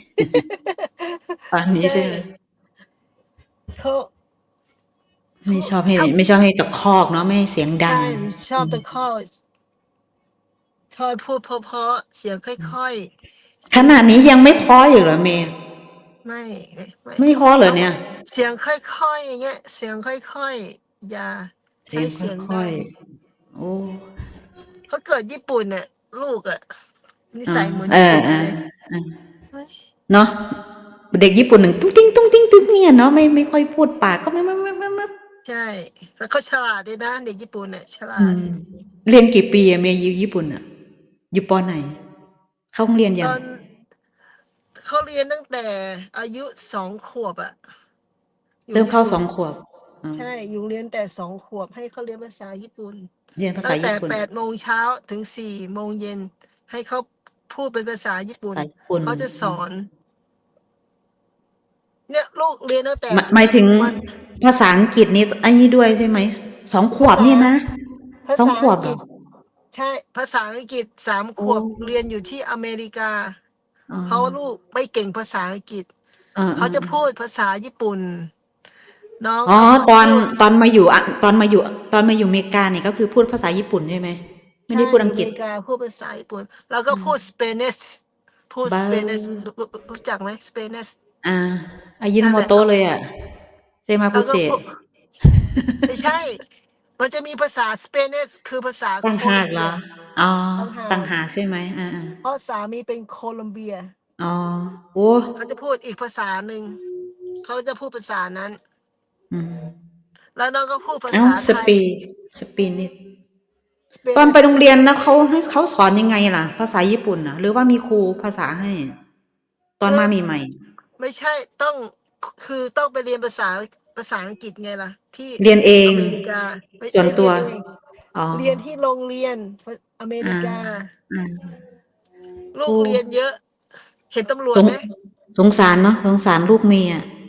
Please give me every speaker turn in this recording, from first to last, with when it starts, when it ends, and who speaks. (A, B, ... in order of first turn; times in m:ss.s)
0:00.2-0:02.2 A
0:01.5-0:02.2 B
0:03.8-0:04.1 A
0:05.4-0:06.1 A
0:05.4-0:08.8 B
0:07.8-0:09.3 A
0:10.9-0:13.1 A
0:13.6-0:14.0 A
0:13.7-0:15.5 B
0:16.2-0:22.8 A
0:17.2-0:18.0 B
0:21.9-0:22.8 B
0:23.5-0:24.0 B
0:24.9-0:26.6 A
0:27.3-0:28.6 A
0:27.5-0:29.1 B
0:29.5-0:29.8 A
0:30.1-0:30.3 B
0:31.1-0:35.1 B
0:35.4-0:38.4 A
0:38.2-0:40.6 B
0:41.3-0:42.0 B
0:42.7-0:43.4 B
0:43.2-0:43.6 A
0:44.8-0:47.6 A
0:48.7-0:49.3 A
0:48.7-0:50.2 B
0:50.1-0:53.1 A
0:53.4-0:54.2 B
0:53.6-0:59.9 A
0:58.5-0:59.6 B
1:02.1-1:04.0 A
1:03.1-1:07.6 B
1:07.0-1:07.6 A
1:08.3-1:09.0 A
1:08.4-1:09.0 B
1:09.7-1:13.4 A
1:11.4-1:11.8 B
1:13.9-1:14.3 B
1:14.1-1:15.9 A
1:16.4-1:16.9 B
1:16.6-1:18.3 A
1:19.2-1:20.3 A
1:19.5-1:25.3 B
1:24.7-1:30.9 A
1:26.9-1:27.2 B
1:28.6-1:29.5 B
1:31.2-1:33.0 B
1:32.2-1:32.6 A
1:33.9-1:34.6 B
1:34.1-1:34.7 A
1:35.3-1:35.8 B
1:35.9-1:36.4 A
1:37.0-1:39.8 A
1:39.0-1:42.2 B
1:40.6-1:41.1 A
1:42.2-1:43.9 A
1:44.2-1:45.3 B
1:45.4-1:46.8 A
1:47.4-1:48.6 A
1:49.3-1:49.7 B
1:50.4-1:51.8 A
1:51.1-1:52.9 B
1:54.0-1:54.7 A
1:54.2-1:58.9 B
1:59.8-2:00.5 B
1:59.8-2:00.1 A
2:01.0-2:07.6 A
2:05.4-2:06.2 B
2:06.9-2:07.4 B
2:08.1-2:08.6 B
2:08.3-2:10.9 A
2:10.2-2:11.5 B
2:12.5-2:13.4 A
2:12.7-2:13.0 B
2:14.1-2:14.8 A
2:15.3-2:17.0 B